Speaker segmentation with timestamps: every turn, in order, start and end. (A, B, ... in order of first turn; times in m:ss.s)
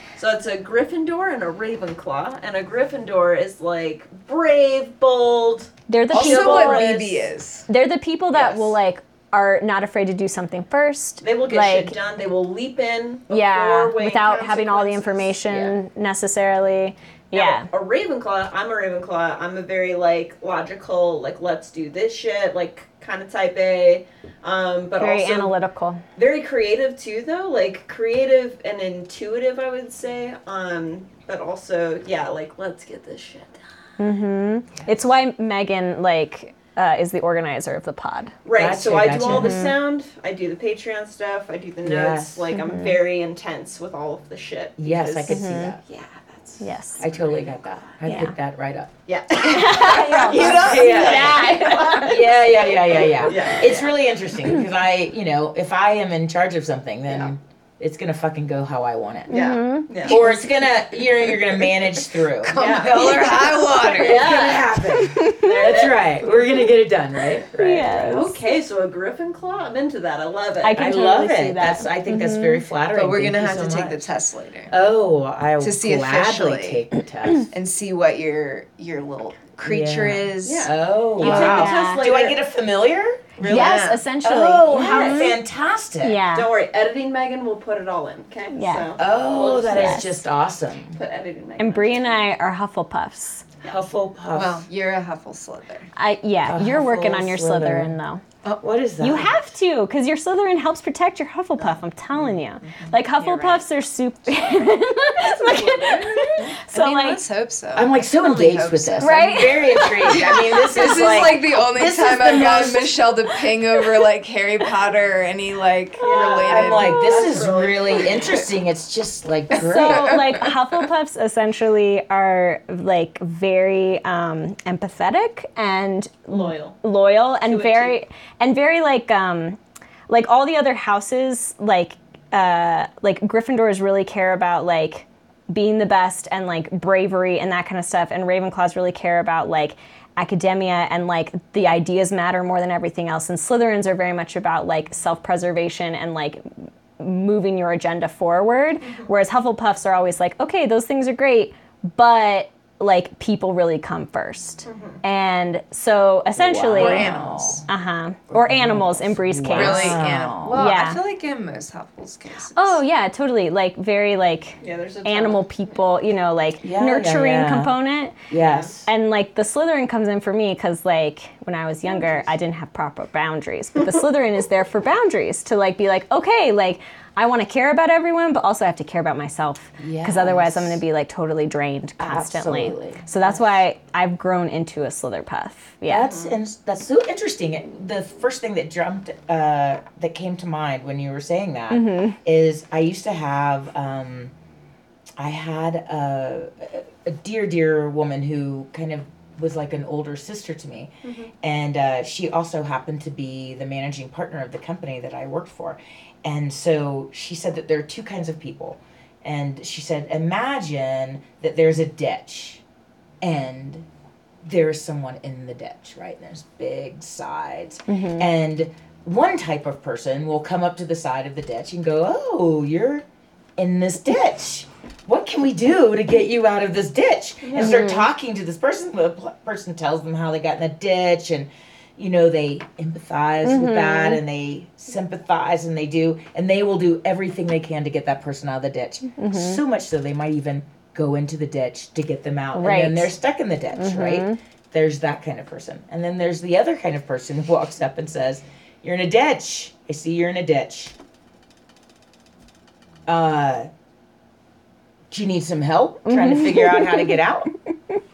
0:00.2-0:07.2 A
0:05.9-0:06.9 B
0:06.1-0:07.7 C
0:07.7-0:12.0 B
0:08.3-0:08.7 A
0:11.2-0:15.8 A
0:13.3-0:17.7 B
0:17.3-0:25.5 A
0:25.0-0:26.0 B
0:26.2-0:33.6 A
0:34.0-0:38.3 B
0:38.4-0:46.6 A
0:38.5-0:39.6 D
0:39.2-0:39.8 B
0:41.8-0:42.5 D
0:42.5-0:43.0 B
0:44.8-0:45.8 D
0:45.3-0:45.8 B
0:46.6-0:47.0 B
0:47.0-0:48.9 D
0:48.0-0:48.3 B
0:49.1-0:54.0 A
0:49.4-0:52.2 B
0:49.7-0:51.3 C
0:50.5-0:59.4 D
0:59.3-1:00.4 B
0:59.3-1:00.2 A
1:00.0-1:08.3 D
1:02.4-1:04.6 C
1:02.6-1:06.6 A
1:04.9-1:05.6 B
1:07.5-1:08.4 B
1:08.1-1:10.9 A
1:10.6-1:12.6 B
1:10.7-1:14.1 D
1:12.9-1:14.8 C
1:14.7-1:17.5 D
1:15.6-1:16.8 C
1:17.5-1:20.7 C
1:19.6-1:26.2 D
1:20.4-1:22.4 A
1:21.2-1:22.0 B
1:23.4-1:24.0 C
1:23.4-1:23.9 A
1:23.4-1:25.4 B
1:24.7-1:25.4 A
1:26.0-1:26.5 B
1:26.3-1:30.2 A
1:28.5-1:28.9 B
1:29.0-1:31.0 D
1:29.7-1:30.1 B
1:30.9-1:32.2 A
1:31.6-1:33.4 B
1:33.6-1:34.7 D
1:34.3-1:35.9 C
1:36.0-1:38.2 B
1:36.5-1:39.4 D
1:39.0-1:47.2 B
1:42.7-1:43.6 C
1:45.2-1:46.4 A
1:46.4-1:57.5 C
1:47.7-1:53.0 D
1:49.0-1:51.4 B
1:56.0-1:58.5 A
1:56.4-2:00.4 D
1:59.5-2:09.6 B
2:06.3-2:06.8 A
2:07.4-2:08.0 A
2:10.1-2:26.5 B
2:27.0-2:41.0 B
2:28.8-2:29.1 A
2:34.6-2:35.0 A
2:36.4-2:37.7 D
2:36.7-2:37.6 C
2:38.3-2:40.7 D
2:39.5-2:42.8 C
2:42.5-2:48.2 B
2:44.6-2:45.8 A
2:46.6-2:47.8 D
2:48.3-2:48.9 D
2:48.4-2:48.7 A
2:48.9-3:06.1 B
2:51.8-2:52.3 A
2:59.8-3:00.8 D
3:02.0-3:03.6 D
3:05.9-3:14.3 D
3:06.0-3:06.4 A
3:11.7-3:12.2 B
3:15.2-3:32.6 D
3:21.0-3:21.3 A
3:33.2-3:33.9 D
3:34.4-3:43.0 D
3:37.9-3:38.3 B
3:43.6-4:11.0 D
3:47.4-3:47.9 A
3:47.6-3:48.1 B
3:53.4-3:54.2 B
3:59.2-3:59.6 B
4:02.5-4:03.1 B
4:03.8-4:04.4 B
4:13.1-4:13.7 D
4:15.1-4:17.5 D
4:16.1-4:17.2 B